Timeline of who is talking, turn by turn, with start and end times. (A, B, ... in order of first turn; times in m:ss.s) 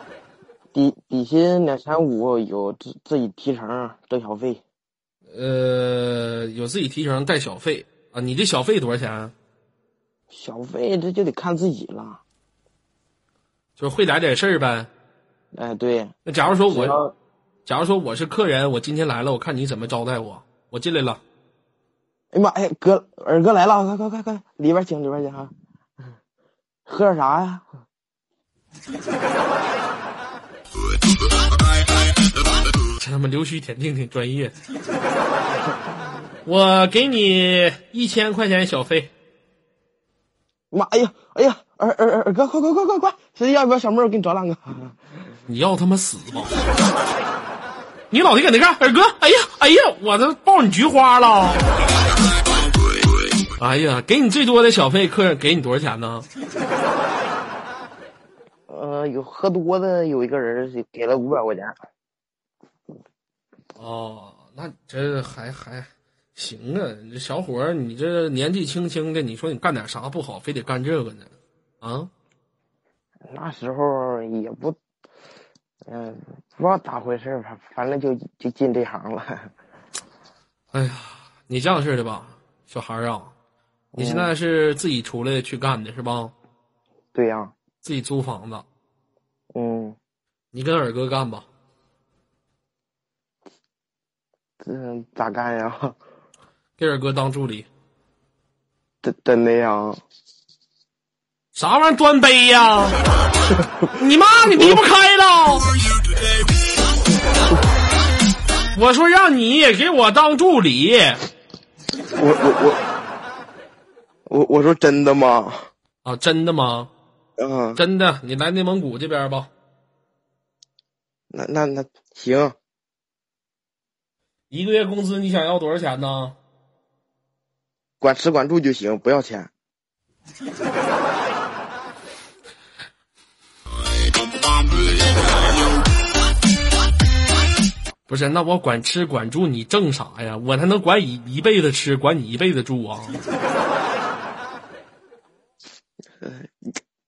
0:00.7-0:04.6 A
0:05.3-0:09.3 B
0:10.3-0:12.2 A
0:13.8-0:14.9 B
0:15.5-0:16.2 A
0:16.2-0:17.0 B
0:16.7-0:17.1 A
0:17.6-0:21.2 B
0:22.3-0:25.5 A
0:26.8-0:27.6 A
0:33.0-0:34.5 B
0:36.4-0:39.1 B
0:40.7-0:45.0 A
0:45.5-0:46.6 B
0:48.1-0:51.6 B
0:53.6-0:56.2 B
0:58.7-1:01.7 A
1:03.8-1:12.1 B
1:13.3-1:14.8 A
1:15.9-1:19.5 A
1:20.7-1:23.3 B
1:23.9-1:24.3 A
1:24.0-1:26.3 B
1:27.1-1:27.5 A
1:27.8-1:28.6 B
1:29.5-1:30.0 A
1:30.5-1:31.4 B
1:34.6-1:36.0 A
1:36.8-1:37.7 B
1:39.0-1:40.0 A
1:41.5-1:43.0 B
1:44.0-1:45.7 B
1:48.7-1:51.2 B
1:52.1-1:52.8 A
1:54.3-1:55.7 A
1:56.0-1:56.9 B
1:57.4-1:57.8 A
1:57.8-1:59.5 B
2:01.3-2:02.5 A
2:04.5-2:06.4 B
2:08.0-2:09.5 A
2:18.1-2:23.2 B
2:26.2-2:26.8 A